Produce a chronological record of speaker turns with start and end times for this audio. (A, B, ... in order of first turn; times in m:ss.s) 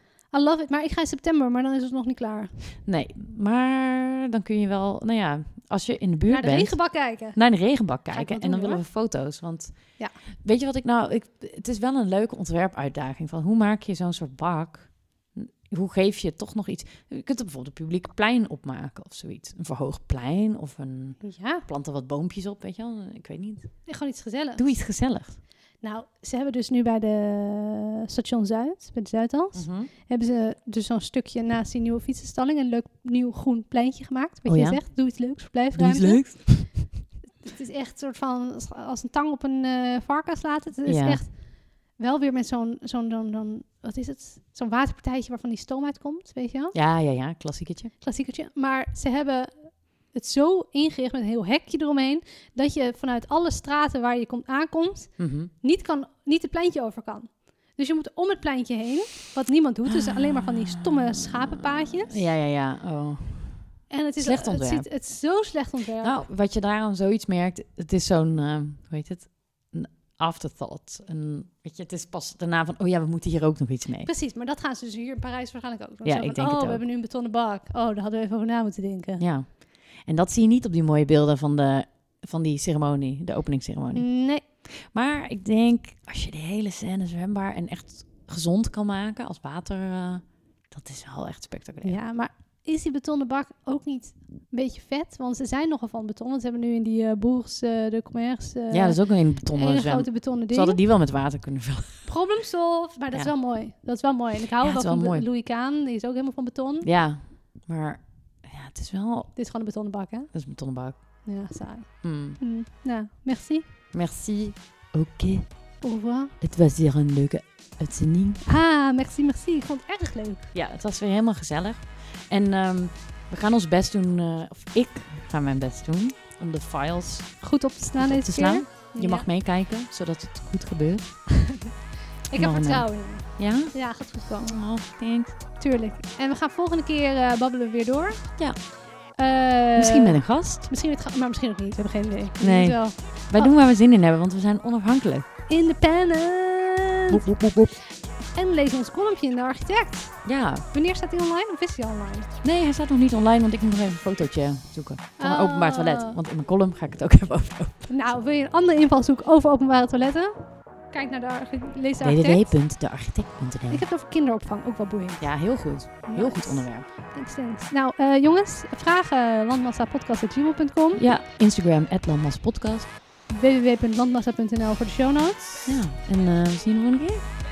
0:00.3-0:02.6 A
0:02.8-0:23.9 B
0:06.3-0:08.8 A
0:21.2-0:21.6 A
0:23.8-0:24.8 A
0:24.6-0:25.4 B
0:25.8-0:36.7 A
0:29.5-0:29.9 B
0:34.4-0:35.0 B
0:35.7-0:37.0 B
0:37.4-0:46.8 A
0:40.8-0:41.2 B
0:46.7-0:47.9 B
0:48.0-1:02.2 A
0:55.2-0:55.5 B
1:00.1-1:05.0 B
1:03.9-1:06.2 A
1:06.0-1:14.1 B
1:14.0-1:19.2 A
1:16.0-1:16.8 B
1:19.2-1:32.0 B
1:23.9-1:24.4 A
1:31.8-1:40.8 A
1:38.7-1:42.1 B
1:42.0-1:46.9 A
1:43.1-1:43.4 B
1:44.6-1:45.2 B
1:46.8-1:49.4 B
1:49.4-1:50.3 A
1:50.3-1:51.3 B
1:51.2-1:53.7 A
1:52.0-1:52.4 B
1:53.9-1:55.7 B
1:55.8-1:56.4 A
1:56.4-1:58.4 B
1:58.4-2:00.5 A
2:00.5-2:11.2 B
2:07.4-2:09.3 A
2:12.3-2:14.6 A
2:12.3-2:15.4 B
2:15.6-2:23.5 A
2:19.8-2:20.7 B
2:22.4-2:25.2 B
2:25.5-2:27.2 A
2:27.1-2:27.8 B
2:27.7-2:32.3 A
2:30.2-2:30.6 B
2:32.4-2:37.9 B
2:35.2-2:36.2 A
2:37.9-2:42.6 A
2:42.0-2:43.8 B
2:43.7-2:51.0 A
2:45.2-2:46.9 B
2:50.9-2:52.9 B
2:53.3-2:55.8 A
2:55.6-2:57.4 B